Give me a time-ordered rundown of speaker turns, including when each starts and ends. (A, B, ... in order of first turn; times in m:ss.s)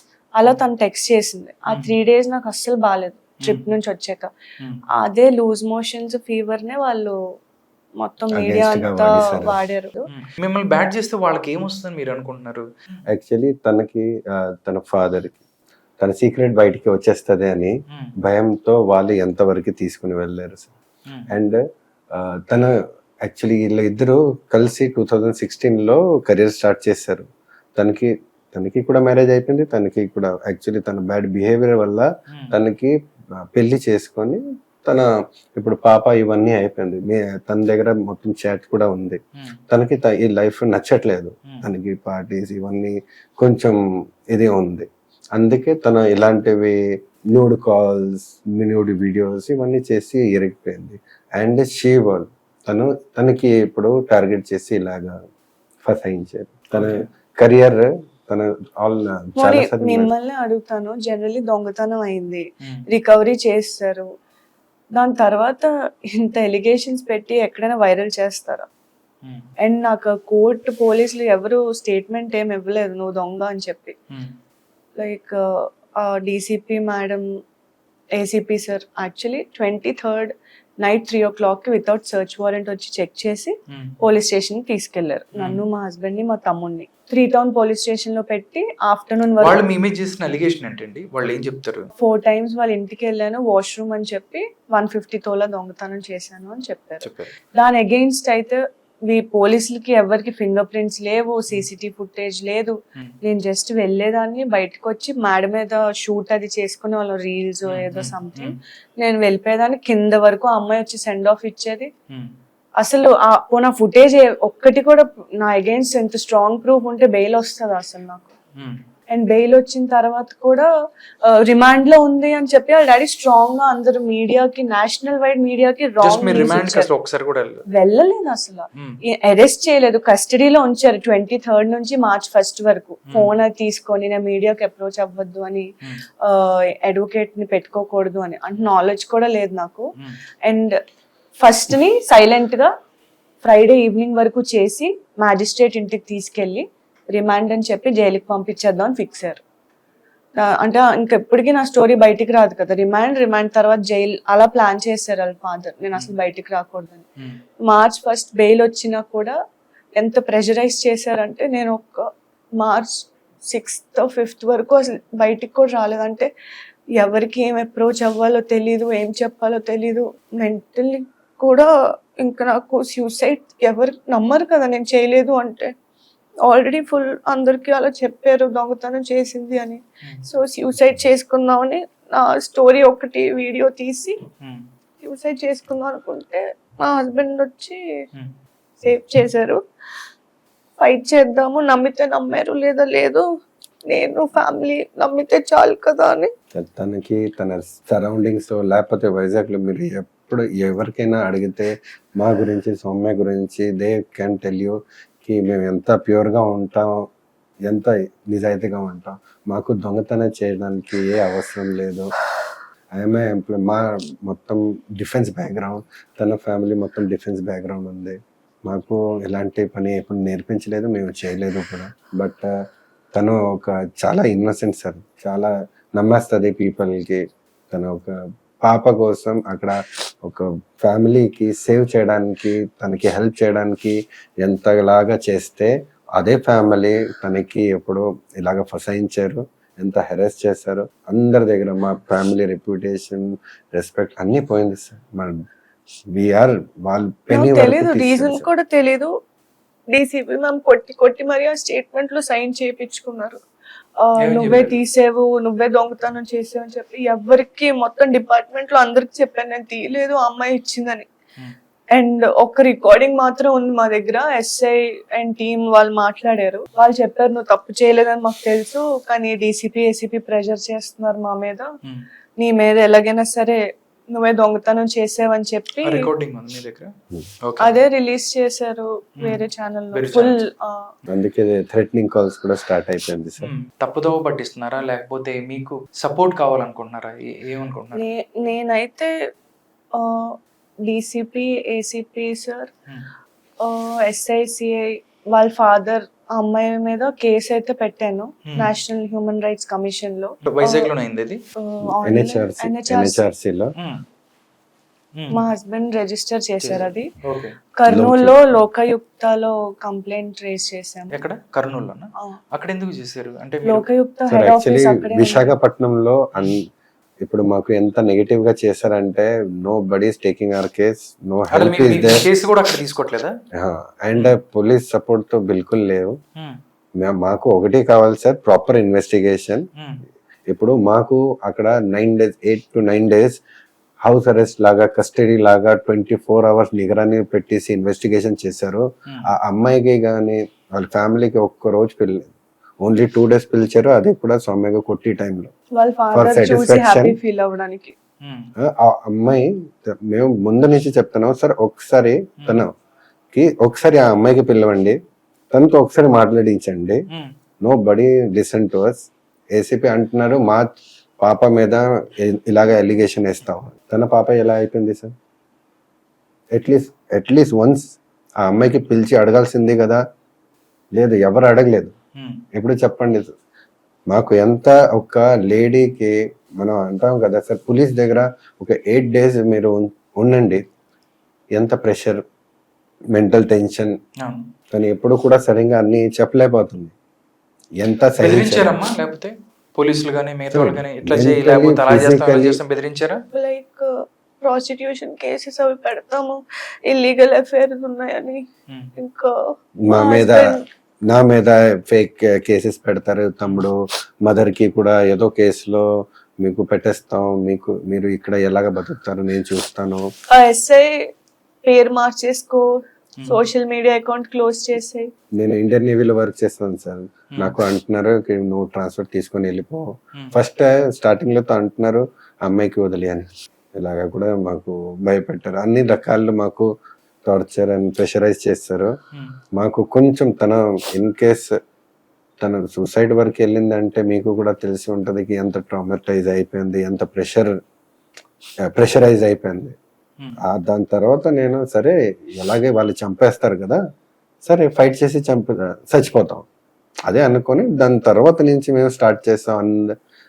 0:00.4-0:04.3 A
0:03.4-0:03.7 B
0:04.9-0:07.2 A
0:08.0-0:10.1 A
0:08.3-0:09.6 C
0:10.1-0:13.0 B
0:13.1-0:15.4 C
0:16.0-0:20.7 C
0:21.3-0:21.6 C
0:22.1-0:22.7 C
0:23.2-0:32.9 C
0:32.3-0:32.5 B
0:33.5-0:35.0 C
0:35.6-0:43.8 C
0:44.3-0:46.8 C
0:47.3-0:55.2 C
0:55.8-1:00.1 C
0:56.7-0:57.1 B
0:59.4-1:04.1 A
1:04.9-1:08.7 A
1:09.6-1:14.0 A
1:15.0-1:17.2 A
1:18.2-1:29.6 A
1:23.7-1:24.0 B
1:25.4-1:25.6 B
1:29.4-1:31.9 B
1:32.0-1:51.9 A
1:37.0-1:37.3 B
1:47.7-1:48.6 B
1:52.8-1:58.3 A
1:59.1-2:00.7 A
2:01.2-2:06.9 A
2:06.0-2:07.6 B
2:07.7-2:15.7 A
2:16.2-2:19.9 A
2:20.4-2:20.7 A
2:21.4-2:22.7 A
2:23.4-2:29.4 A
2:30.4-2:37.0 A
2:37.7-2:39.3 A
2:40.0-2:46.3 A
2:47.0-2:51.7 A
2:52.2-2:55.7 A
2:56.4-3:04.2 A
3:04.4-3:04.6 B
3:05.0-3:07.8 A
3:08.8-3:09.6 A
3:10.8-3:13.2 A
3:13.9-3:16.3 A
3:16.5-3:27.0 C
3:27.6-3:32.1 C
3:33.0-3:42.5 C
3:43.1-4:05.3 C
4:06.1-4:08.5 C
4:07.3-4:09.1 A
4:09.9-4:13.4 A
4:14.0-4:21.1 A
4:14.2-4:14.7 B
4:21.9-4:31.7 A
4:32.4-4:33.6 A
4:34.1-4:36.0 A
4:35.8-4:36.9 B
4:37.4-4:37.7 B
4:37.6-4:40.9 A
4:39.9-4:40.4 B
4:41.1-4:43.5 C
4:43.4-4:48.0 B
4:47.9-4:49.1 A
4:49.9-4:50.3 A
4:50.8-4:52.7 A
4:53.6-5:00.9 A
5:00.4-5:01.4 B
5:01.6-5:03.2 A
5:02.0-5:03.7 C
5:05.3-5:07.1 A
5:06.6-5:07.5 B
5:07.8-5:11.2 A
5:07.9-5:08.6 C
5:11.1-5:13.8 B
5:13.6-5:15.5 A
5:14.3-5:16.6 C
5:17.2-5:22.2 C
5:21.5-5:23.3 B
5:23.6-5:26.2 C
5:27.0-5:29.6 C
5:29.8-5:30.0 B
5:30.5-5:33.4 C
5:34.0-5:45.5 C
5:45.7-5:47.9 A
5:46.1-5:47.2 C
5:48.2-5:48.5 B
5:48.6-5:52.7 C
5:52.4-5:52.7 B
5:53.3-5:55.0 C
5:55.5-5:57.0 C
5:57.6-6:05.1 C
6:06.5-6:10.0 C
6:10.9-6:11.9 C
6:12.2-6:12.4 B
6:12.5-6:13.3 C
6:14.1-6:20.6 C
6:21.5-6:22.2 C
6:23.1-6:23.9 C
6:24.7-6:26.9 C
6:27.8-6:28.8 C
6:28.2-6:33.2 B
6:30.5-6:32.6 C
6:33.3-6:33.9 A
6:34.4-6:38.4 A
6:39.0-6:39.3 A
6:39.9-6:40.6 C
6:39.9-6:40.6 A
6:41.1-6:45.8 C
6:46.4-6:50.0 C
6:50.3-6:51.0 A
6:51.6-6:52.6 A
6:53.2-6:55.1 A
6:55.4-7:06.7 C
7:07.2-7:08.9 C
7:09.5-7:11.5 C
7:12.4-7:17.5 C
7:18.6-7:19.8 C
7:20.4-7:23.8 C
7:24.4-7:26.4 C
7:27.1-7:29.9 C